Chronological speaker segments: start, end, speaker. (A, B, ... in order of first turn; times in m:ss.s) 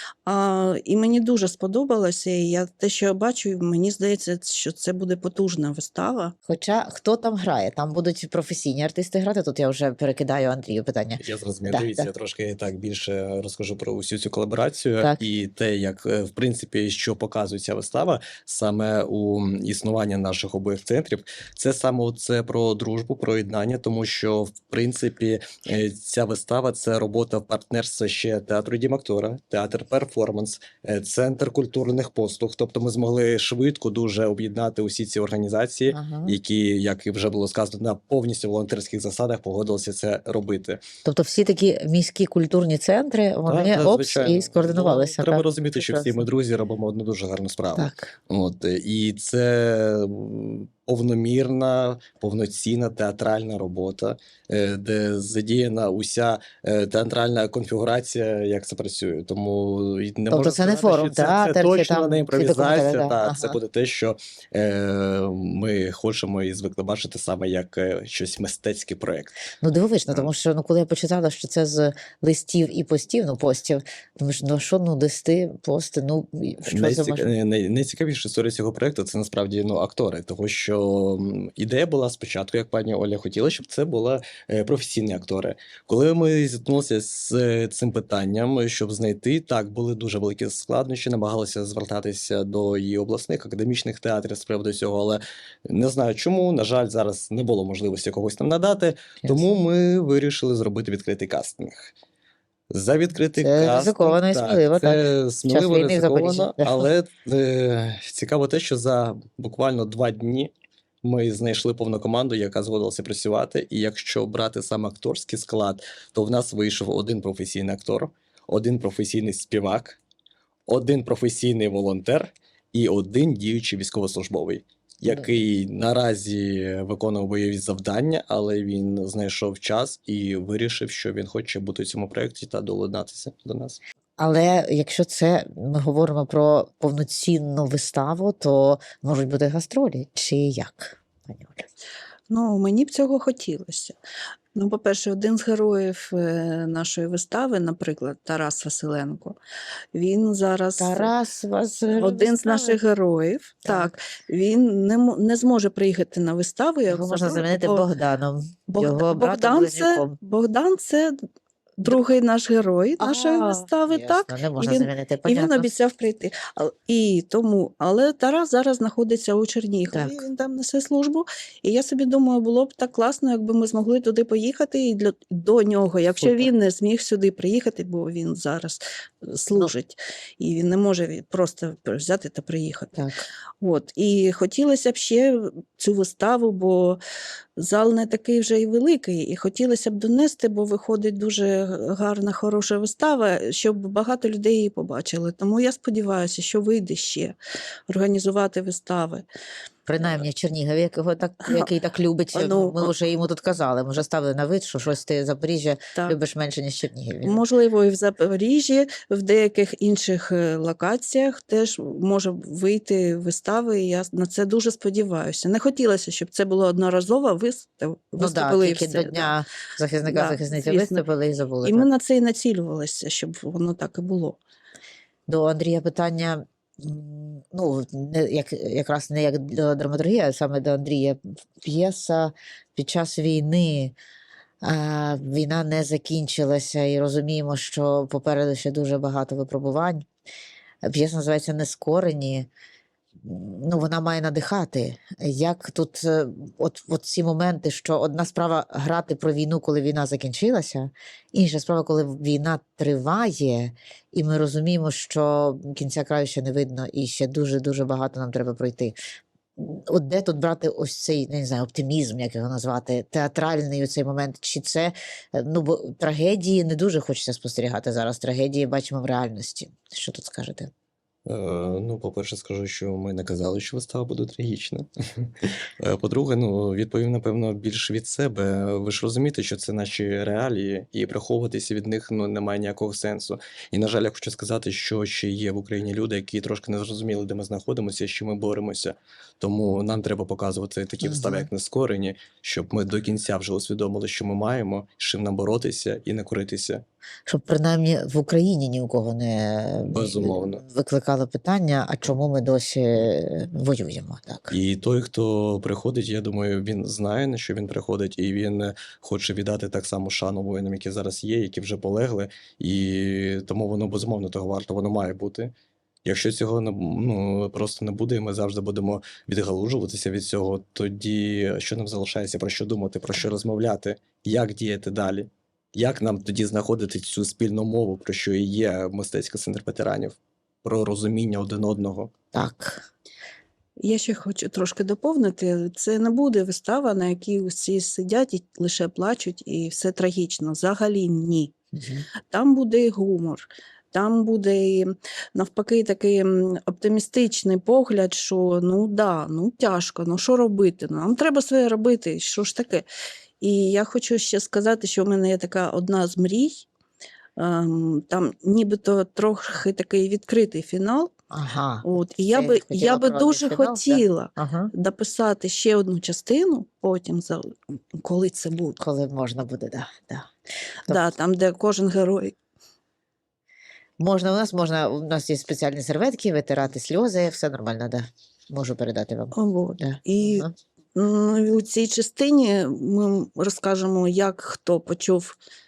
0:00.2-0:06.3 A
0:06.5-0:12.1 B
0:11.2-0:40.8 C
0:35.9-0:36.4 B
0:41.0-0:46.3 B
0:43.5-1:09.4 C
0:47.8-0:48.1 B
1:00.3-1:03.6 B
1:09.6-1:17.3 B
1:16.6-1:41.9 C
1:42.7-1:50.5 C
1:43.4-1:46.9 B
1:51.0-2:00.0 C
2:00.7-2:13.8 C
2:14.2-2:21.7 B
2:22.3-2:24.0 A
2:24.5-2:29.4 A
2:29.9-2:31.1 A
2:30.8-2:32.8 B
2:31.9-2:37.9 A
2:33.6-2:33.9 B
2:36.9-2:40.2 B
2:38.7-2:41.1 A
2:41.8-3:03.0 A
2:43.0-2:45.7 B
2:49.9-2:50.2 B
2:56.2-2:56.5 B
3:03.6-3:07.0 A
3:07.6-3:17.4 A
3:17.9-3:19.2 A
3:19.9-3:27.4 B
3:22.3-3:22.9 A
3:27.2-3:39.3 A
3:38.2-3:41.8 B
3:40.0-3:41.0 A
3:41.6-3:44.4 A
3:45.3-3:53.9 B
3:54.6-4:00.0 B
4:00.8-4:02.5 B
4:03.2-4:19.0 B
4:19.6-4:30.7 B
4:31.3-4:56.8 C
4:51.0-4:51.5 B
4:57.3-5:04.6 B
4:59.8-5:00.6 C
5:04.5-5:15.5 C
5:16.0-5:32.1 C
5:32.3-5:32.9 B
5:33.8-5:41.5 A
5:41.7-5:42.1 B
5:42.3-5:52.8 A
5:53.4-5:56.6 A
5:57.4-6:01.1 A
6:01.3-6:04.7 B
6:01.8-6:08.8 A
6:08.8-6:10.3 B
6:10.9-6:12.3 A
6:14.0-6:20.5 B
6:19.3-6:25.4 A